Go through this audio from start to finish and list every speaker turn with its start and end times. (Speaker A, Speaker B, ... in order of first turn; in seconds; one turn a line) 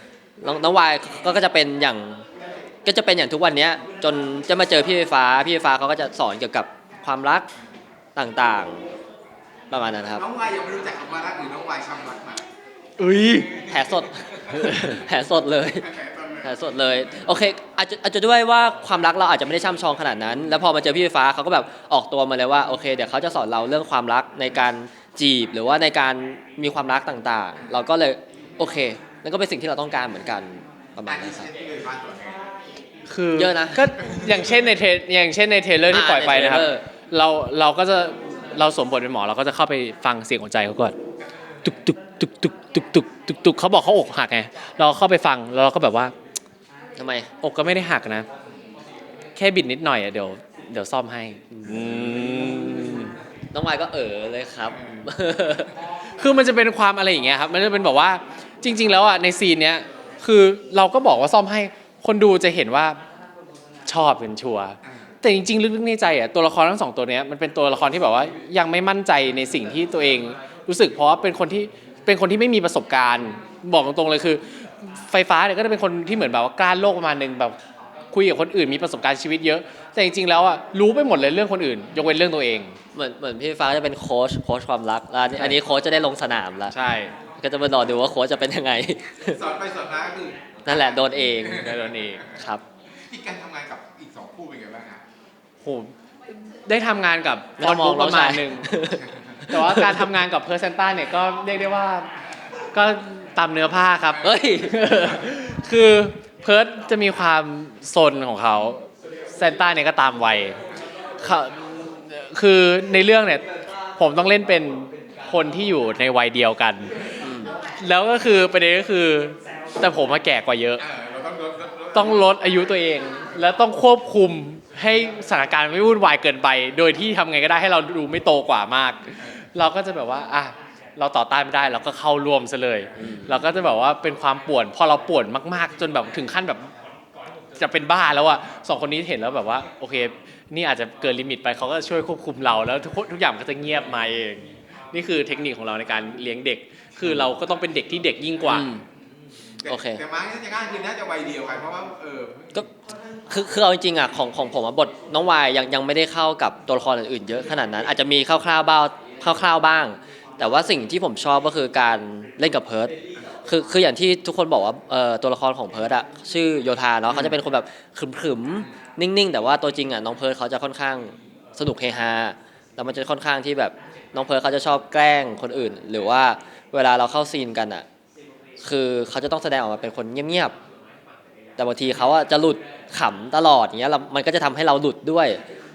Speaker A: 0.4-2.2
Speaker A: 2.8-7.5
Speaker A: 8.2-8.8
Speaker A: 9.7-10.2
Speaker B: 10.2-12.4
Speaker A: 13.0-15.9
Speaker B: 13.7-14.7
Speaker B: 15.6-16.6
Speaker A: 16.4-31.5
Speaker B: 31.1-32.4
Speaker C: 33.1-40.9
Speaker A: 33.3-33.9
Speaker B: 34.1-34.4
Speaker A: 35.9-36.8
Speaker C: 41.6-46.1
Speaker A: 47.0-47.3
Speaker C: 47.4-48.2
Speaker C: 49.4-53.1
Speaker A: 51.5-52.0
Speaker A: 53.5-55.7
Speaker C: 56.2-63.0
Speaker C: 63.9-77.5
Speaker C: 78.1-82.8
Speaker A: 82.9-86.7
Speaker C: 86.7-87.1
Speaker A: 87.4-89.4
Speaker B: 89.3-91.8
Speaker A: 90.7-91.8
Speaker C: 91.5-92.2
Speaker A: 92.3-92.6
Speaker B: 93.1-95.0
Speaker C: 95.6-95.9
Speaker C: 96.5-98.8
Speaker A: 97.6-100.2
Speaker C: 99.5-102.1
Speaker C: 102.7-110.6
Speaker A: 104.2-105.2
Speaker C: 111.2-113.4
Speaker C: 114.0-120.8
Speaker A: 117.2-117.5
Speaker B: 120.8-122.3
Speaker C: 121.9-136.7
Speaker A: 133.0-133.4
Speaker C: 137.6-148.7
Speaker A: 147.0-147.3
Speaker A: 148.5-148.8
Speaker B: 149.6-152.5
Speaker A: 149.6-150.0
Speaker A: 153.3-162.9
Speaker A: 163.4-177.8
Speaker A: 178.6-180.6
Speaker A: 181.6-185.4